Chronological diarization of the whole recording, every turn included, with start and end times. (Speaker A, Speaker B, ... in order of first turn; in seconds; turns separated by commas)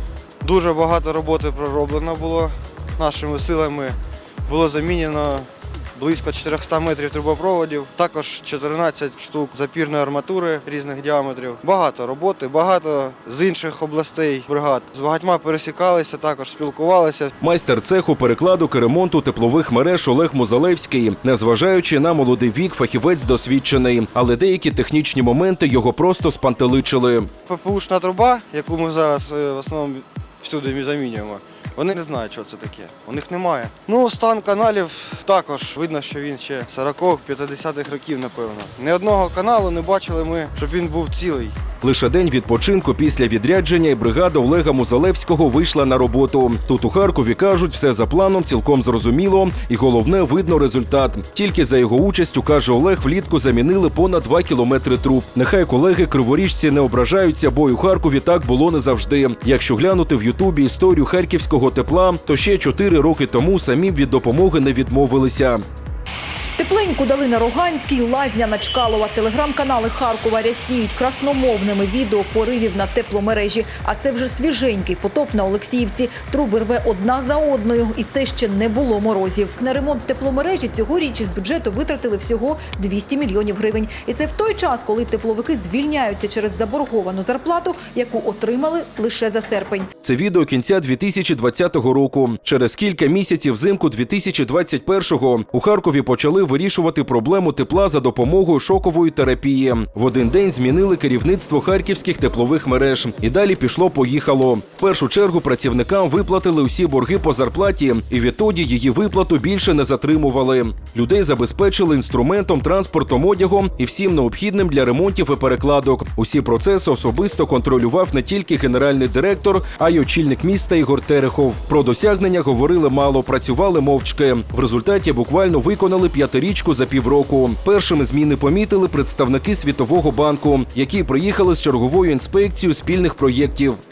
Speaker A: 0.4-17.3, Speaker B: 17.4-27.3, Speaker A: 27.5-41.6, Speaker B: 41.8-65.6, Speaker C: 66.6-89.9, Speaker B: 90.0-133.8